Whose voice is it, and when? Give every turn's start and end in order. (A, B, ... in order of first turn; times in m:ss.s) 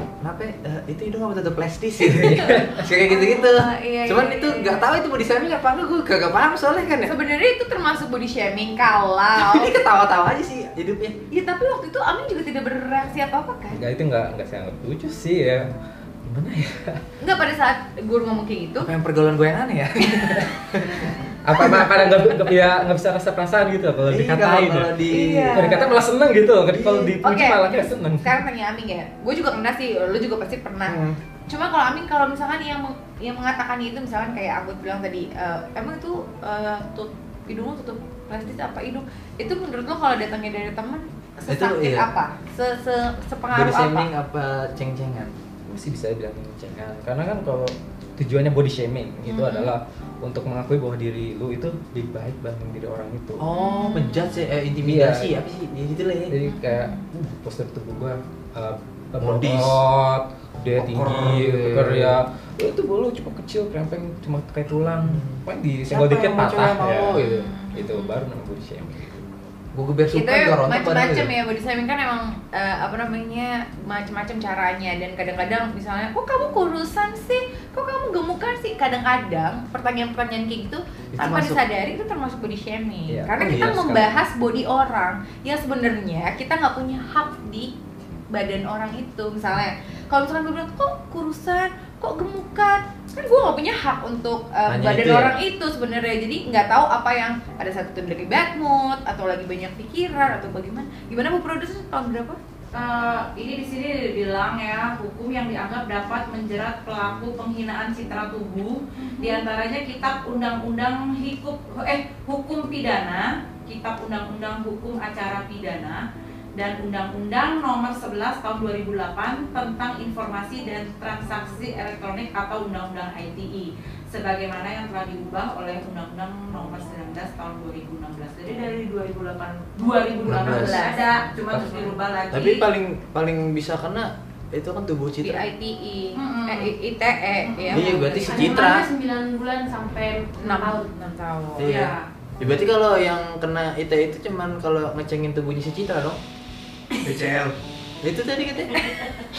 0:00.2-0:07.1 A
0:02.1-0:04.9 B
0:02.2-0:02.7 C
0:07.0-0:09.8 B
0:09.4-0:11.2 A
0:11.3-0:13.8 B
0:13.7-0:15.7 C
0:16.2-0:17.0 C
0:17.2-0:18.9 B
0:18.8-0:22.0 A
0:21.4-0:24.9 C
0:24.0-0:25.8 A
0:25.1-0:26.0 B
0:25.5-0:28.4 C
0:26.9-0:44.1 B
0:30.9-0:31.2 A
0:41.5-0:42.1 A
0:43.5-0:45.3 A
0:45.7-0:53.5 C
0:49.3-0:49.7 B
0:53.4-0:56.4 A
0:53.5-0:54.4 B
0:54.8-0:55.3 C
0:56.3-1:09.3 C
0:56.4-0:57.0 B
0:59.2-0:59.8 A
1:00.8-1:02.2 A
1:05.0-1:07.4 A
1:07.1-1:08.2 B
1:09.7-1:11.3 A
1:10.1-1:27.8 B
1:21.1-1:21.6 A
1:23.1-1:24.2 C
1:23.4-1:23.8 A
1:28.3-1:42.4 B
1:34.7-1:35.4 A
1:42.7-2:12.6 D
1:49.0-1:49.4 B
2:10.2-2:10.8 A
2:10.3-2:11.0 B
2:11.5-2:11.8 C
2:12.3-2:15.4 A
2:15.2-2:18.7 B
2:16.1-2:16.7 D
2:17.4-2:18.6 D
2:17.7-2:18.9 A
2:18.2-2:20.9 E
2:20.4-2:21.7 B
2:21.6-2:26.2 A
2:21.6-2:22.1 D
2:27.0-2:28.9 A
2:28.7-2:29.2 B